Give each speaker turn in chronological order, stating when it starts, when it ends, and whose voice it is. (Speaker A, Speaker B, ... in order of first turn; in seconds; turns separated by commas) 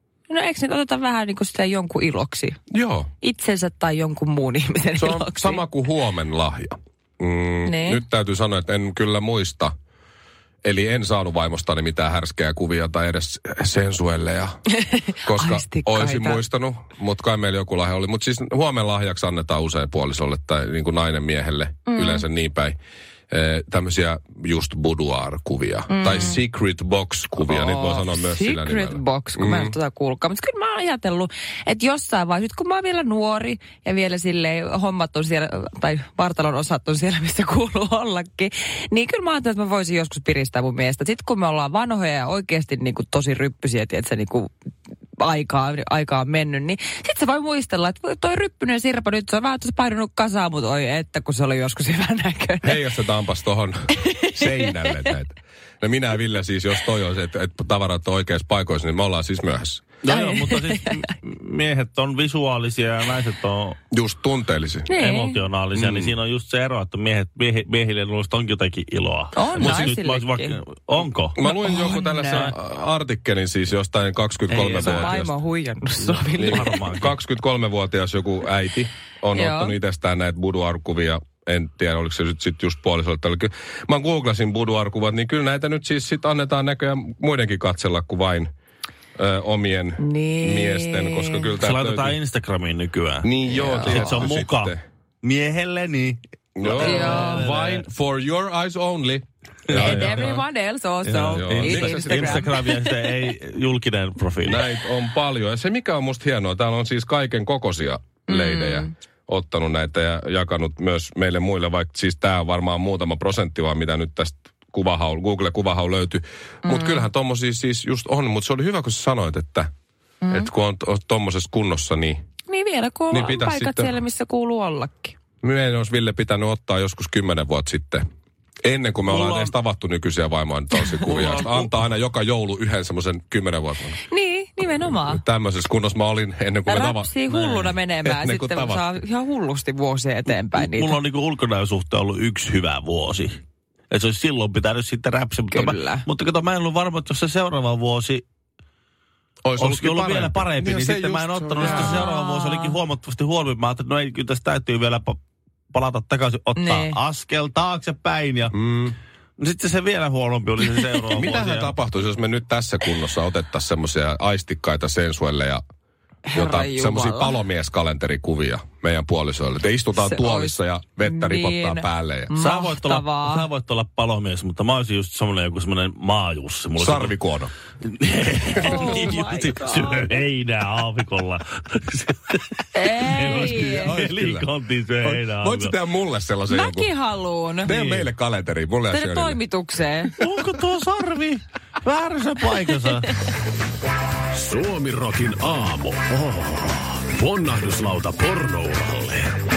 Speaker A: 0.3-2.6, Speaker B: 2.7-3.1, Speaker A: 3.2-5.6, Speaker B: 5.0-9.7, Speaker A: 7.7-8.0, Speaker B: 10.6-14.6, Speaker A: 14.7-16.4, Speaker B: 15.2-22.8, Speaker A: 21.9-22.2, Speaker B: 23.3-29.8, Speaker A: 25.9-26.4, Speaker A: 27.5-44.5, Speaker A: 45.2-52.8, Speaker B: 52.6-59.9, Speaker A: 54.1-54.7, Speaker C: 60.0-63.8, Speaker A: 60.1-61.0, Speaker B: 63.9-64.9, Speaker A: 64.9-65.4, Speaker C: 65.0-71.3, Speaker B: 65.8-66.2, Speaker A: 69.3-70.6, Speaker B: 69.6-69.8, Speaker B: 71.3-75.3, Speaker A: 71.4-72.5, Speaker C: 74.5-75.2, Speaker A: 74.7-76.8, Speaker C: 76.0-77.2, Speaker B: 76.4-88.5, Speaker A: 79.3-79.8, Speaker B: 89.2-92.2, Speaker A: 90.0-91.5, Speaker C: 91.6-97.8, Speaker B: 93.2-94.8, Speaker A: 93.5-94.1, Speaker B: 96.6-100.4, Speaker A: 96.8-97.5, Speaker C: 99.7-100.3, Speaker A: 99.7-102.6, Speaker C: 101.0-104.6, Speaker B: 101.1-102.5, Speaker B: 104.5-119.7, Speaker A: 108.3-108.9, Speaker A: 116.7-117.0, Speaker A: 120.2-120.5, Speaker B: 120.3-122.2, Speaker A: 122.5-125.2, Speaker B: 123.1-124.0, Speaker B: 125.4-128.0, Speaker B: 128.6-134.0, Speaker C: 129.1-129.5, Speaker C: 131.0-131.7, Speaker A: 134.1-135.2, Speaker B: 134.8-137.1, Speaker A: 136.7-140.9, Speaker C: 137.3-137.7, Speaker B: 138.0-138.9, Speaker C: 140.5-148.2, Speaker A: 145.5-146.0, Speaker B: 149.4-152.0, Speaker C: 149.6-155.2, Speaker A: 151.6-152.7, Speaker C: 155.7-158.5, Speaker A: 156.6-157.0, Speaker B: 158.5-159.0, Speaker C: 159.4-161.8, Speaker B: 161.2-165.6, Speaker A: 166.2-167.4, Speaker B: 166.3-172.3, Speaker A: 170.0-173.5, Speaker C: 172.3-177.2, Speaker B: 176.8-177.5, Speaker C: 177.8-185.7, Speaker B: 178.6-179.2, Speaker A: 178.6-180.2, Speaker A: 182.7-183.9, Speaker B: 183.2-184.5, Speaker B: 185.0-186.9, Speaker A: 186.5-187.8, Speaker B: 187.6-189.4, Speaker C: 187.7-188.1, Speaker A: 188.9-190.1, Speaker C: 190.2-193.1, Speaker D: 194.3-199.4